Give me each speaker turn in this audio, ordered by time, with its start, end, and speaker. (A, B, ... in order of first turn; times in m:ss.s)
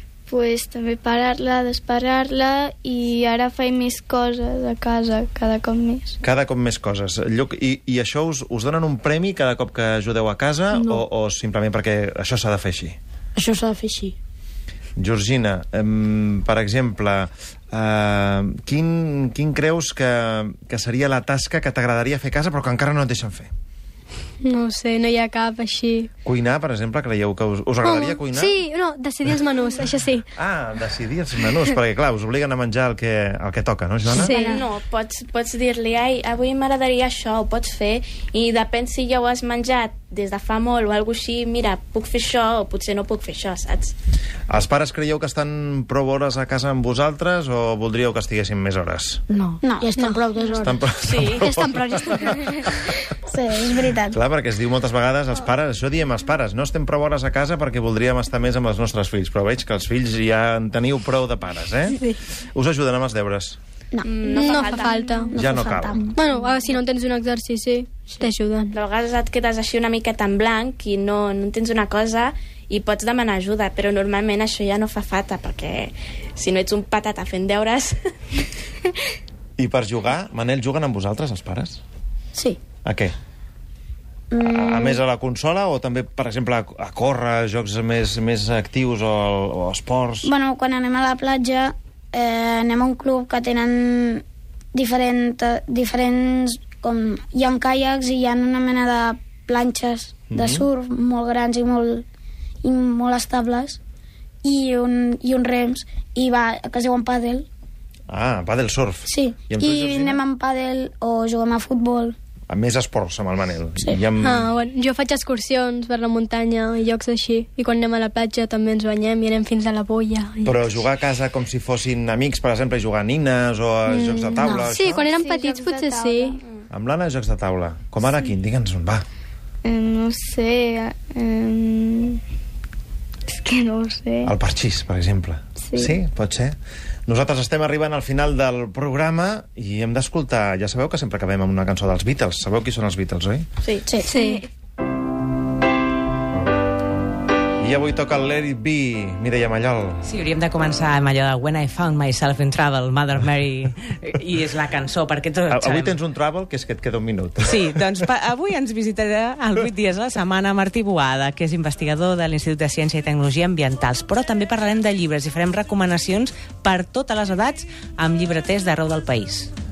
0:00.3-0:06.2 A
0:06.2-0:13.0 B
0:10.7-0:11.0 C
0:13.3-0:14.1 C
0:15.0-0:23.5 B
0:24.4-0:26.1 D
0:26.2-0:28.6 B
0:27.8-0:30.3 D
0:30.4-0:34.3 B
0:34.1-0:34.6 D
0:34.2-0:34.6 E
0:34.4-0:43.9 F
0:44.5-0:49.2 B
0:49.3-0:50.8 C
0:49.6-0:50.1 E
0:50.6-0:52.9 B
0:51.0-0:51.4 F
0:51.3-0:52.7 D
0:53.2-0:54.2 E
0:54.1-1:02.0 B
1:01.9-1:02.2 D
1:02.5-1:03.6 B
1:03.9-1:04.6 E
1:04.0-1:05.4 F
1:04.3-1:05.4 D
1:05.3-1:06.1 E
1:05.4-1:06.1 B
1:06.1-1:08.7 D
1:08.7-1:18.4 F
1:19.6-1:21.8 B
1:22.8-1:23.1 B
1:24.3-1:25.0 E
1:24.4-1:30.3 B
1:30.2-1:34.2 E
1:34.7-1:42.0 E
1:40.3-1:40.6 B
1:42.6-1:43.8 E
1:44.4-1:47.5 E
1:48.1-1:50.2 B
1:49.1-1:52.2 E
1:52.5-1:54.5 B
1:54.2-2:00.8 D
2:00.4-2:05.1 B
2:03.9-2:06.4 D
2:05.0-2:06.4 A
2:06.7-2:09.0 B
2:09.6-2:12.2 A
2:13.3-2:14.3 A
2:14.2-2:23.4 B
2:15.6-2:15.9 A
2:23.6-2:24.4 F
2:24.1-2:24.4 D
2:27.6-2:30.0 B
2:30.1-2:33.7 G
2:34.4-2:35.8 G
2:35.5-2:38.1 B
2:38.2-2:49.5 G